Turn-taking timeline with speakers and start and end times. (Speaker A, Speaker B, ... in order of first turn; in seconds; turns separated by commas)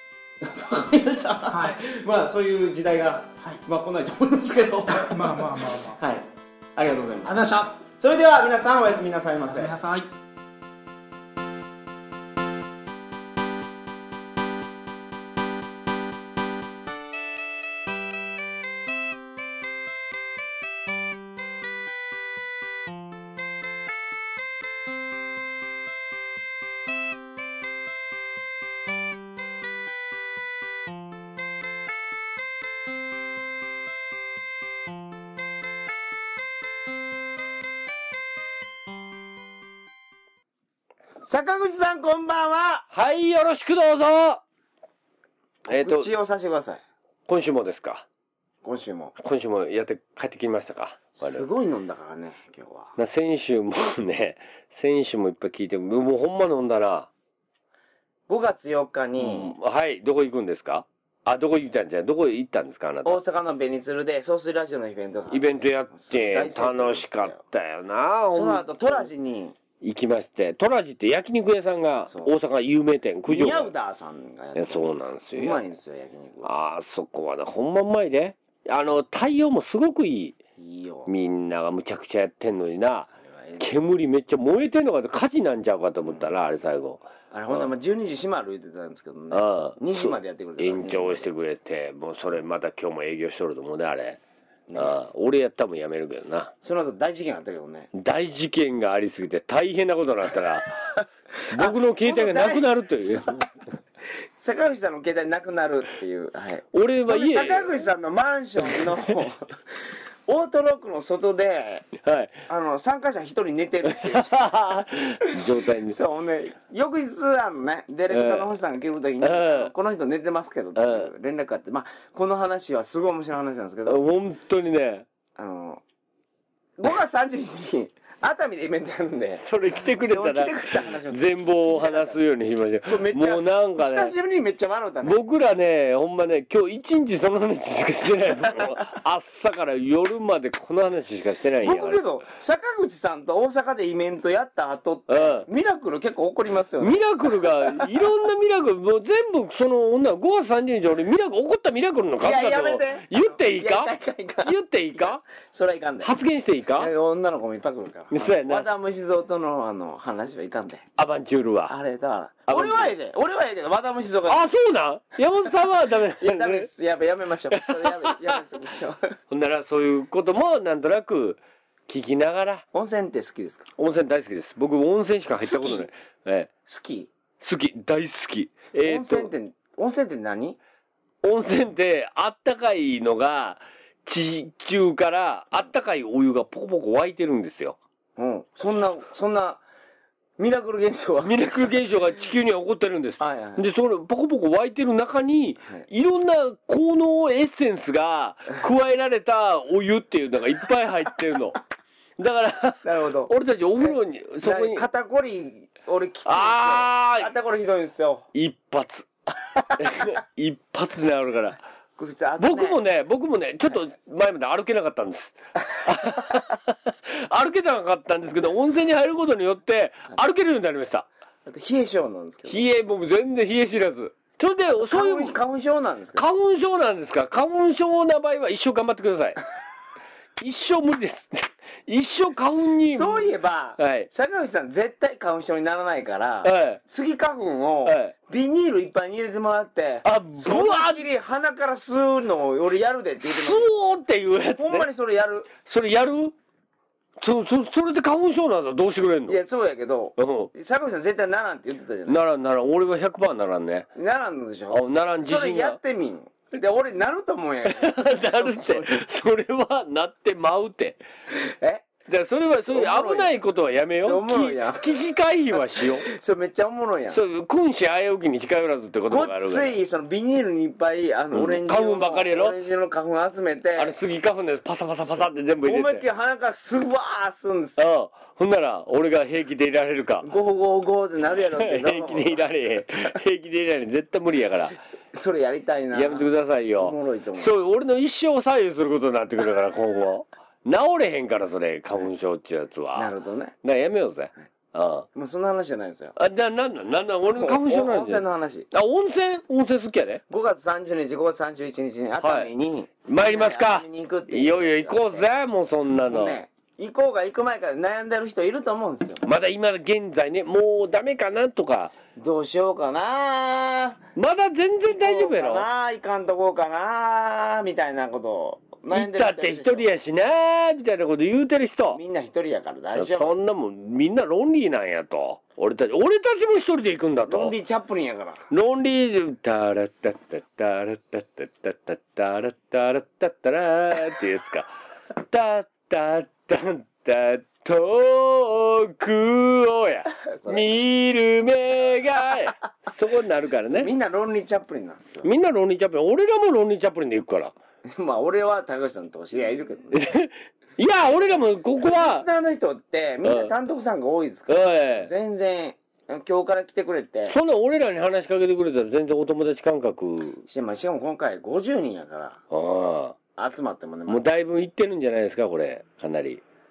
Speaker A: 0.4-9.7, Speaker B: 1.5-1.8, Speaker B: 3.4-3.6, Speaker B: 4.9-6.0, Speaker B: 7.2-7.8, Speaker B: 9.5-10.1, Speaker A: 41.2-42.9, Speaker C: 42.9-44.4, Speaker A: 45.7-46.8, Speaker C: 45.7-46.1, Speaker C: 47.3-48.0, Speaker A: 48.6-49.2, Speaker C: 49.2-51.5, Speaker A: 51.1-53.0, Speaker C: 53.0-57.1, Speaker A: 58.3-59.5, Speaker C: 59.2-63.2, Speaker A: 63.0-67.4, Speaker C: 65.3-69.1, Speaker A: 68.3-69.6, Speaker C: 69.8-73.7, Speaker A: 72.1-72.3, Speaker A: 73.3-76.5, Speaker C: 74.5-75.6, Speaker C: 76.4-80.4, Speaker A: 80.6-81.1, Speaker C: 81.1-87.7, Speaker A: 83.2-83.7, Speaker A: 86.0-86.3, Speaker A: 87.3-91.3, Speaker C: 89.3-94.2, Speaker A: 94.7-95.0, Speaker C: 94.8-96.5, Speaker A: 96.6-97.9, Speaker C: 97.9-100.9, Speaker C: 101.5-103.4, Speaker A: 101.5-103.4, Speaker A: 104.1-111.9, Speaker C: 106.7-107.9, Speaker C: 108.7-109.1, Speaker C: 112.0-112.4, Speaker A: 112.5-124.1, Speaker C: 113.9-116.0, Speaker C: 118.1-118.5, Speaker C: 119.2-119.7, Speaker C: 120.8-121.1, Speaker C: 123.9-125.1, Speaker A: 125.4-125.8, Speaker A: 126.8-132.2, Speaker C: 129.4-134.1, Speaker A: 132.9-135.2, Speaker C: 135.0-142.0, Speaker A: 141.6-147.9, Speaker C: 145.1-145.5, Speaker C: 146.8-155.2, Speaker A: 152.2-156.1, Speaker C: 156.0-156.9, Speaker A: 156.8-160.9, Speaker C: 158.1-158.7, Speaker C: 161.0-161.8, Speaker A: 161.7-164.4, Speaker C: 162.5-162.9, Speaker C: 164.3-166.7, Speaker A: 166.2-169.2, Speaker C: 167.5-168.4, Speaker C: 169.3-172.7, Speaker A: 172.7-173.7, Speaker C: 173.8-176.5, Speaker A: 175.4-175.9, Speaker A: 176.7-177.1, Speaker C: 177.4-179.3, Speaker A: 178.8-180.6, Speaker C: 181.2-187.8, Speaker A: 188.2-189.6, Speaker A: 190.4-191.6, Speaker C: 191.2-201.6, Speaker A: 193.2-193.7, Speaker C: 202.2-204.9, Speaker A: 202.8-208.3, Speaker C: 206.3-207.3, Speaker C: 208.3-209.1, Speaker C: 209.8-211.6, Speaker A: 212.0-212.8, Speaker C: 212.4-221.1, Speaker A: 221.5-222.7, Speaker C: 222.5-225.4, Speaker A: 224.9-226.2, Speaker C: 226.2-229.4, Speaker C: 230.4-234.1, Speaker A: 232.8-243.7, Speaker C: 236.4-236.8, Speaker C: 237.9-238.1, Speaker C: 240.0-241.0, Speaker C: 243.2-244.9, Speaker A: 244.6-245.5, Speaker C: 245.7-246.3, Speaker C: 247.2-249.4, Speaker A: 249.3-252.2, Speaker C: 250.2-250.5, Speaker C: 252.1-253.9, Speaker A: 253.9-259.0, Speaker C: 254.7-255.8, Speaker C: 257.7-261.0, Speaker A: 261.3-261.9, Speaker C: 262.1-266.1, Speaker A: 262.7-263.3, Speaker A: 264.0-265.1, Speaker A: 266.0-267.2, Speaker C: 267.1-269.8, Speaker A: 269.1-274.0, Speaker C: 271.3-272.6, Speaker C: 273.8-276.0, Speaker A: 275.1-277.8, Speaker C: 277.8-280.3, Speaker A: 280.2-282.4, Speaker C: 281.3-284.8, Speaker A: 285.1-287.5, Speaker C: 285.9-295.1, Speaker A: 292.9-293.6, Speaker A: 295.1-296.2, Speaker C: 296.2-300.2, Speaker A: 297.4-298.7, Speaker A: 300.3-305.2, Speaker C: 302.2-302.5, Speaker C: 303.1-306.4, Speaker A: 306.1-309.2, Speaker C: 309.2-311.9, Speaker A: 312.2-314.1, Speaker C: 314.2-315.7, Speaker A: 314.9-319.9, Speaker C: 318.9-322.0, Speaker A: 321.9-323.4, Speaker C: 323.0-327.6, Speaker A: 327.3-328.4, Speaker C: 328.5-334.7, Speaker C: 335.2-343.9, Speaker A: 340.2-340.8, Speaker A: 343.6-345.3, Speaker C: 345.2-347.5, Speaker A: 347.9-350.0, Speaker C: 349.9-352.2, Speaker A: 351.8-357.4, Speaker C: 353.2-353.5, Speaker C: 354.5-355.1, Speaker C: 357.3-360.4, Speaker A: 360.5-362.4, Speaker C: 362.5-363.2, Speaker A: 363.4-364.2, Speaker C: 364.1-366.4